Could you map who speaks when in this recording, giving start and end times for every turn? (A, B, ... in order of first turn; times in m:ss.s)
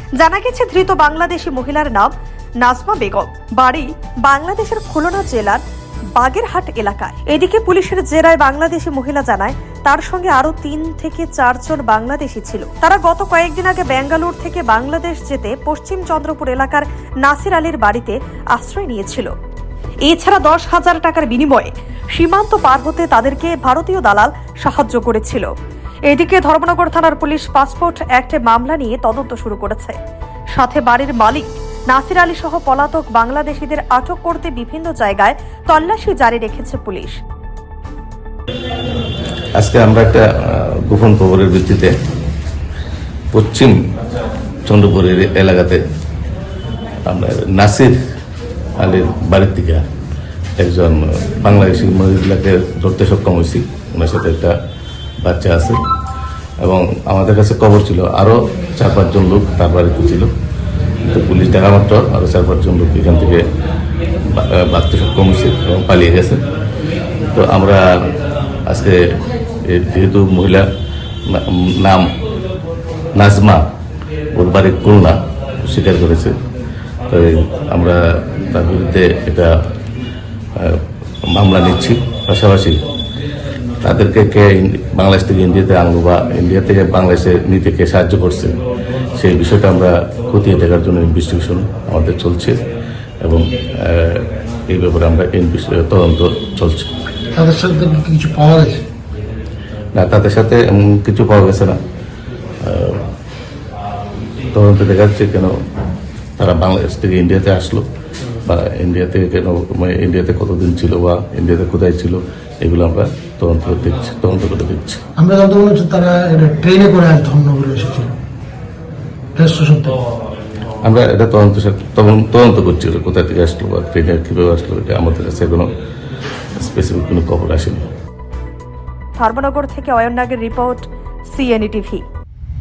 0:00.2-0:02.1 A
0:02.6-0:05.6 A
0:06.2-0:19.3 A
0:20.0-0:25.5 A
0:26.1-0:30.0 A
0:30.5-0:37.2 A
0:39.6-0:41.9 B
0:43.3-0:43.7 B
0:44.6-0:45.8 B
0:47.0-0:48.0 B
0:48.8-0:49.8 B
0:50.6-0:54.5 B
0:55.2-0:55.8 B
0:56.6-1:00.3 B
1:01.0-1:03.4 B
1:04.3-1:06.4 B
1:07.3-1:07.8 B
1:08.6-1:09.0 B
1:09.6-1:10.6 B
1:11.3-1:12.1 B
1:13.1-1:13.6 B
1:14.3-1:16.4 B
1:17.1-1:19.5 B
1:20.6-1:22.8 B
1:23.8-1:28.5 B
1:29.2-1:32.6 B
1:33.2-1:36.9 B
1:37.3-1:38.8 C
1:39.9-1:41.8 B
1:42.6-1:43.0 B
1:44.5-1:45.5 B
1:46.4-1:47.8 B
1:48.4-1:55.0 B
1:55.2-1:58.1 C
1:59.4-2:00.0 C
2:00.8-2:05.7 B
2:06.6-2:07.9 B
2:09.2-2:12.0 A